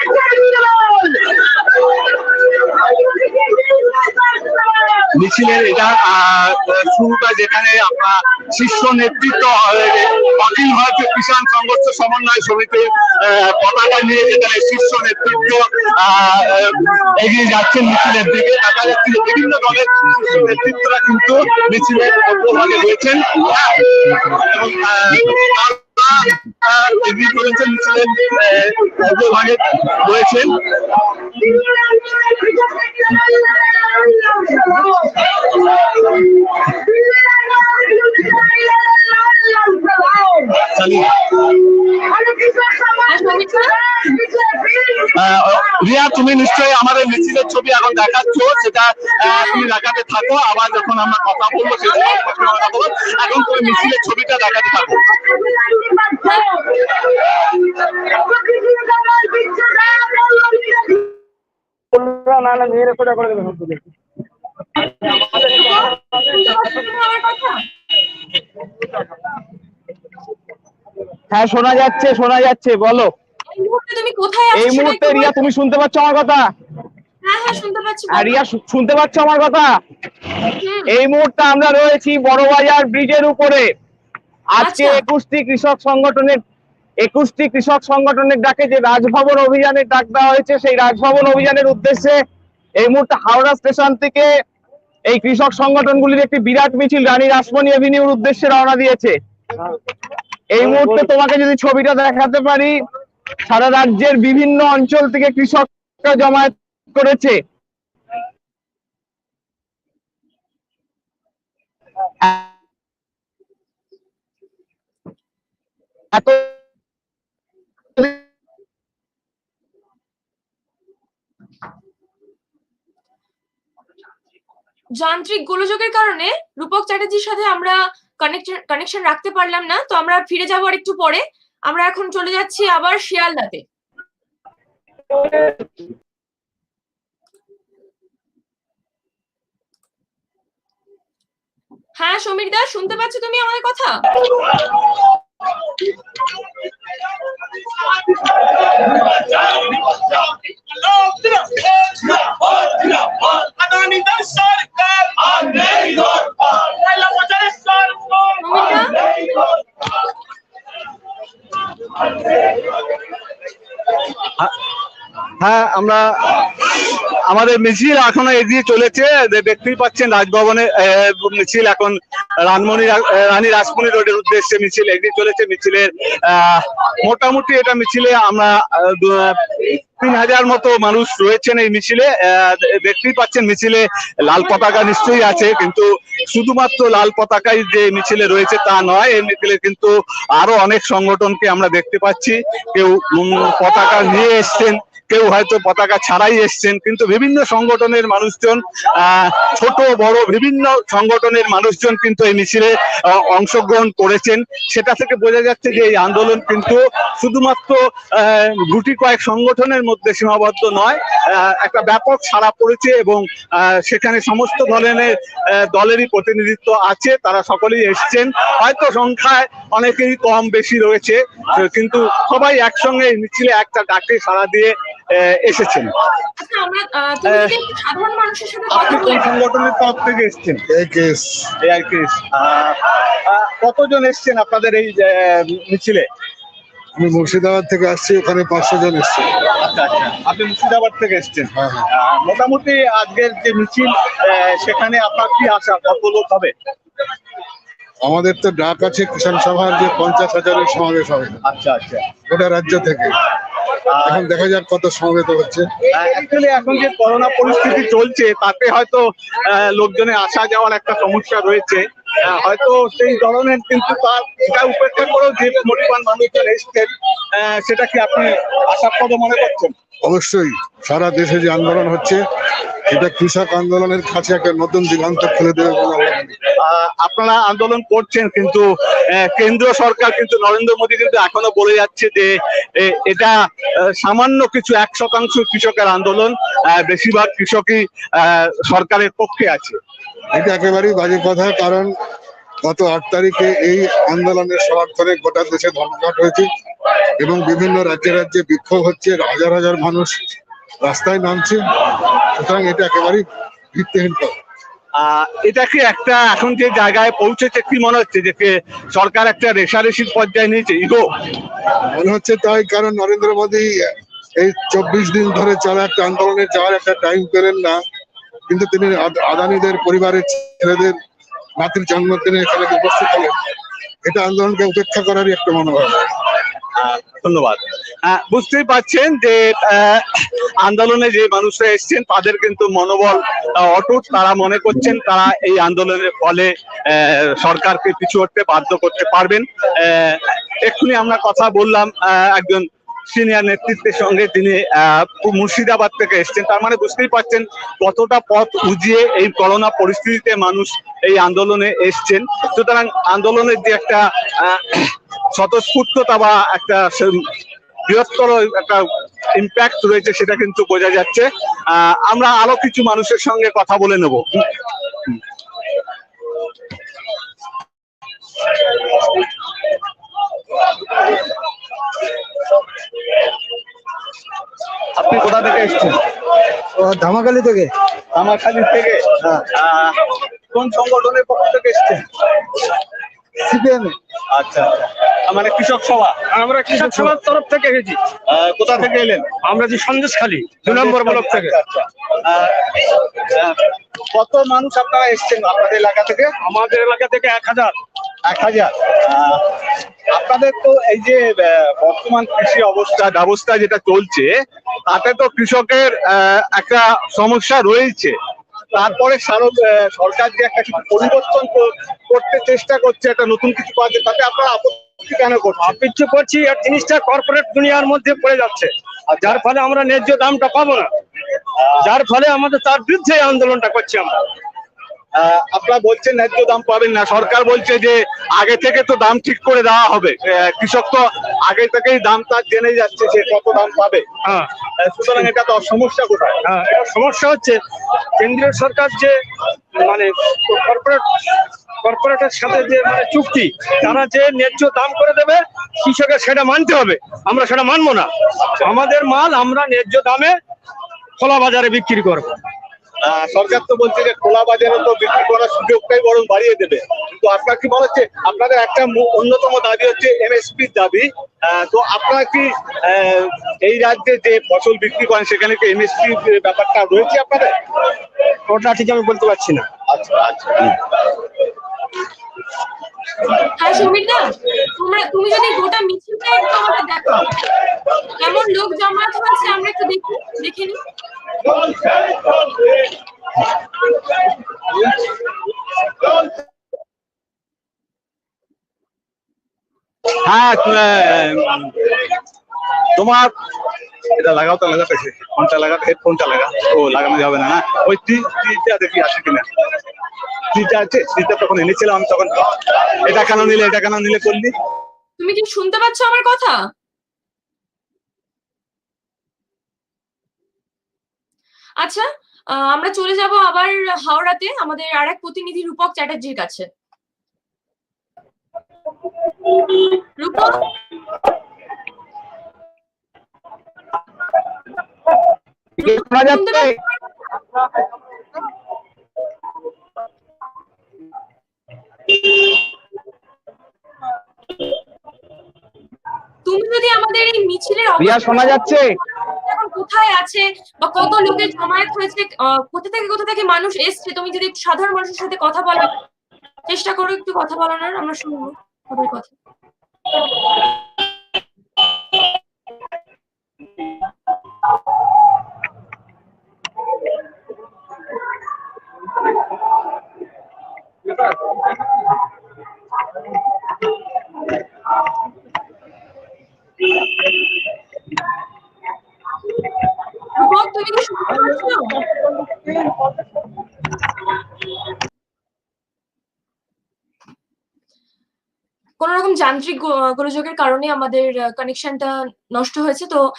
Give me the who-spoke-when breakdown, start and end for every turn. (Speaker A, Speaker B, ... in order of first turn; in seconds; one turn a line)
Speaker A: 5.1-30.6
Speaker A: 40.6-41.3
Speaker B: 43.0-43.7
Speaker A: 45.0-55.0
Speaker B: 49.3-49.7
Speaker B: 51.9-54.0
Speaker B: 55.3-56.7
Speaker B: 58.7-60.9
Speaker C: 62.0-63.8
Speaker B: 65.0-67.6
Speaker C: 71.3-73.1
Speaker B: 73.5-75.4
Speaker C: 74.5-76.5
Speaker B: 77.2-78.4
Speaker C: 78.1-79.8
Speaker B: 80.6-80.9
Speaker C: 80.9-83.7
Speaker C: 84.5-86.4
Speaker B: 84.6-85.0
Speaker C: 87.0-92.2
Speaker C: 92.8-94.3
Speaker C: 95.1-99.2
Speaker C: 100.5-102.8
Speaker C: 103.5-107.4
Speaker C: 116.1-116.5
Speaker B: 125.0-133.7
Speaker B: 142.0-144.1
Speaker D: 150.7-152.2
Speaker D: 152.7-158.2
Speaker B: 158.4-158.9
Speaker A: 165.4-225.9
Speaker B: 226.4-229.3
Speaker A: 227.3-227.5
Speaker A: 228.7-230.6
Speaker E: 230.7-231.5
Speaker A: 231.6-236.1
Speaker E: 237.0-239.3
Speaker A: 239.6-246.5
Speaker E: 241.5-241.9
Speaker E: 248.0-251.4
Speaker A: 251.4-252.1
Speaker E: 252.3-253.2
Speaker A: 253.9-254.2
Speaker E: 254.1-255.7
Speaker A: 255.9-269.7
Speaker E: 270.0-272.2
Speaker E: 272.9-276.4
Speaker A: 276.6-283.3
Speaker A: 283.9-289.8
Speaker E: 290.3-291.9
Speaker E: 292.6-296.5
Speaker E: 297.2-300.2
Speaker E: 300.8-301.6
Speaker E: 302.4-304.3
Speaker A: 305.0-311.1
Speaker E: 311.9-313.9
Speaker E: 314.4-317.8
Speaker E: 318.5-321.0
Speaker E: 321.6-323.4
Speaker E: 324.1-326.1
Speaker A: 326.8-357.3
Speaker A: 357.9-358.8
Speaker A: 359.4-364.5
Speaker A: 375.0-376.0
Speaker E: 376.9-377.6
Speaker A: 378.1-380.0
Speaker A: 380.5-382.1
Speaker E: 383.5-383.9
Speaker A: 384.3-386.1
Speaker D: 386.3-388.0
Speaker A: 388.3-389.3
Speaker D: 389.4-391.6
Speaker A: 390.6-396.3
Speaker D: 396.4-397.8
Speaker A: 398.3-399.5
Speaker A: 400.1-404.3
Speaker A: 404.9-408.2
Speaker A: 408.7-415.8
Speaker D: 415.6-420.9
Speaker A: 421.6-421.9
Speaker D: 421.8-424.3
Speaker A: 425.2-434.1
Speaker A: 434.8-436.4
Speaker D: 436.4-437.6
Speaker D: 438.2-439.1
Speaker D: 439.8-441.1
Speaker D: 441.8-450.4
Speaker D: 451.2-452.4
Speaker A: 453.1-467.5
Speaker D: 468.5-469.7
Speaker A: 469.9-470.8
Speaker B: 473.5-477.3
Speaker B: 478.2-480.8
Speaker A: 490.2-492.0
Speaker A: 492.9-493.3
Speaker A: 494.2-499.5
Speaker A: 500.5-504.5
Speaker B: 505.2-506.6
Speaker B: 511.8-516.7
Speaker B: 520.2-520.6
Speaker C: 525.8-526.8
Speaker B: 526.2-527.0
Speaker B: 536.5-546.0
Speaker C: 538.0-538.8
Speaker B: 546.7-549.3
Speaker B: 570.3-572.0
Speaker B: 579.0-583.2